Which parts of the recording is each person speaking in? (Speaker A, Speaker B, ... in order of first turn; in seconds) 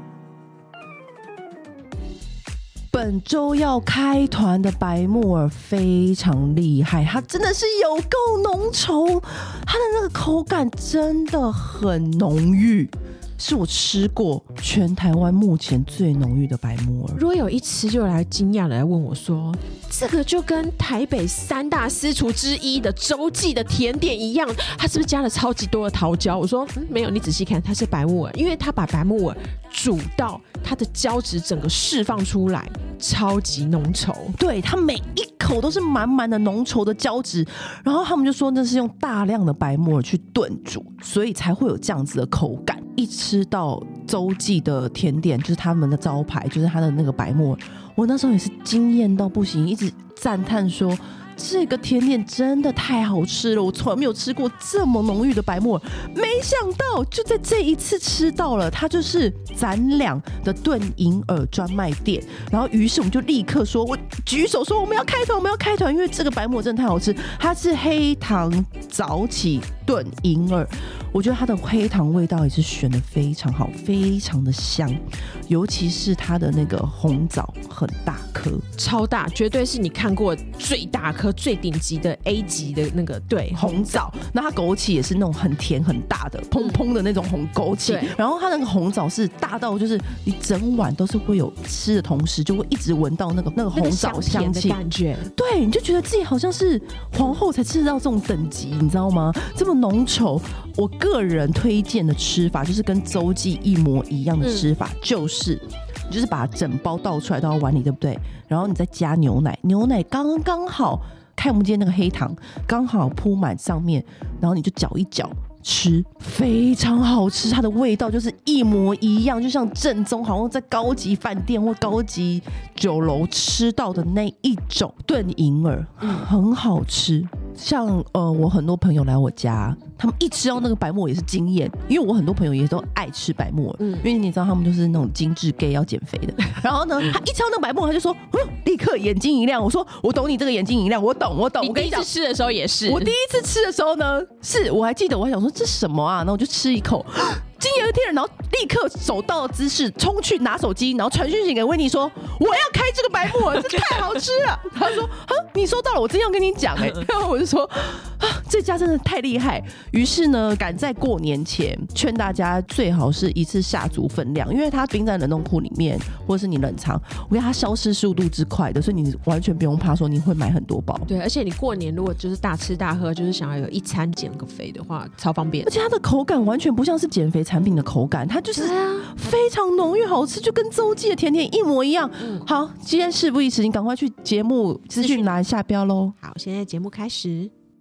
Speaker A: 2.9-17.2, 34.3-78.6, 83.5-94.8, 95.3-142.1, 142.8-171.1, 175.6-186.1
Speaker B: 17.1-34.3, 78.8-84.0, 87.8-88.2, 93.7-95.3, 104.4-104.7, 126.0-126.3, 133.8-134.1, 141.6-143.1, 171.1-175.7, 178.5-179.2, 182.2-182.5, 185.0-185.4, 186.2-187.5